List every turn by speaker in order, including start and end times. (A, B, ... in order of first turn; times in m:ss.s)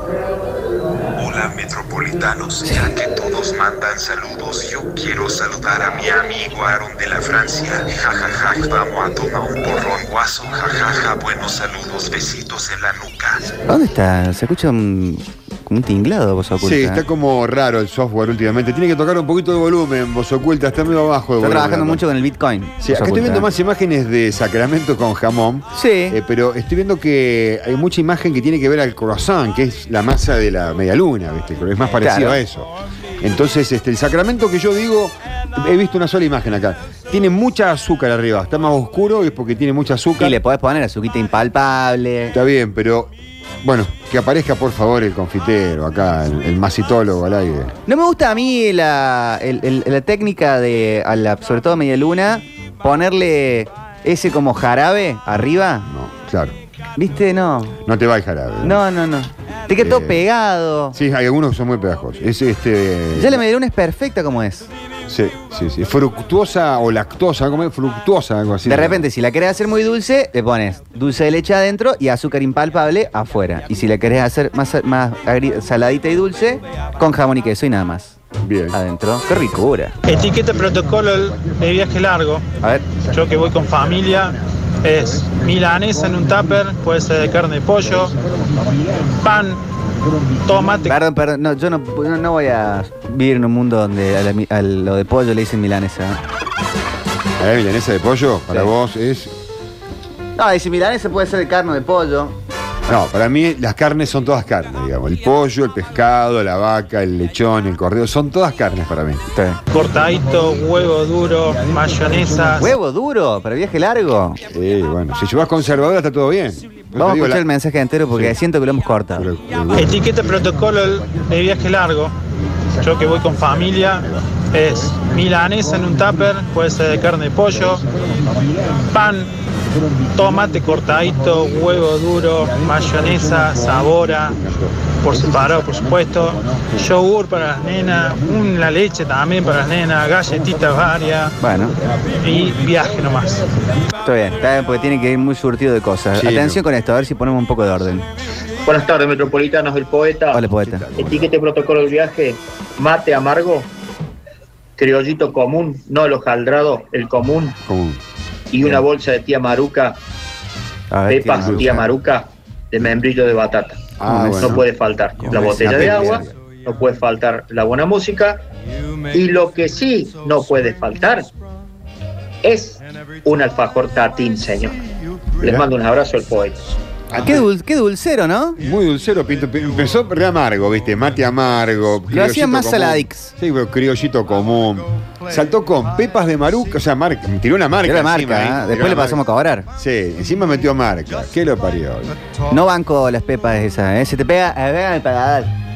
0:01.2-0:13.4 A
0:02.6-0:02.9 B
0:13.7-0:17.0 B
0:16.6-0:22.0 C
0:21.4-0:23.5 B
0:22.8-0:32.7 C
0:25.7-0:26.2 B
0:32.0-0:32.4 B
0:33.2-0:40.4 C
0:40.2-0:42.4 B
0:42.3-0:43.1 C
0:43.6-0:47.7 C
0:47.9-0:55.9 B
0:55.9-0:56.6 C
0:57.0-0:57.8 B
0:57.8-0:58.8 C
0:58.6-1:01.0 B
0:59.7-1:00.2 C
1:00.9-1:03.4 C
1:03.2-1:04.7 B
1:05.1-1:09.0 C
1:08.7-1:18.2 B
1:18.4-1:18.8 C
1:18.7-1:20.0 B
1:20.1-1:22.4 D
1:23.1-1:28.1 D
1:29.2-1:29.6 D
1:30.4-1:31.0 D
1:30.8-1:36.2 B
1:37.4-1:39.3 C
1:40.4-1:42.4 B
1:42.9-1:49.3 C
1:49.3-1:49.6 B
1:49.7-1:52.8 D
1:52.6-1:54.4 B
1:54.5-1:57.4 C
1:57.0-1:59.3 B
1:58.1-1:58.4 C
1:59.2-2:00.1 C
1:59.8-2:02.2 D
2:02.8-2:07.8 D
2:08.9-2:09.3 D
2:10.2-2:14.4 D
2:15.0-2:21.3 D
2:21.4-2:21.7 B
2:22.2-2:23.5 D
2:24.0-2:28.1 B
2:26.1-2:26.6 C
2:28.6-2:30.4 E
2:30.3-2:30.9 B
2:30.5-2:31.3 C
2:31.0-2:33.7 E
2:34.8-2:37.6 E
2:37.6-2:38.0 C
2:38.5-2:40.0 E
2:40.9-2:41.9 B
2:41.1-2:48.4 E
2:41.4-2:41.8 C
2:44.0-2:44.6 C
2:44.1-2:44.6 B
2:45.2-2:46.2 B
2:45.3-2:46.3 C
2:49.1-2:51.3 E
2:52.4-2:54.8 E
2:55.4-2:56.6 E
2:57.1-2:57.5 C
2:57.2-2:58.6 B
2:58.6-3:12.2 C
3:02.1-3:03.3 B
3:07.8-3:09.7 B
3:12.5-3:15.5 B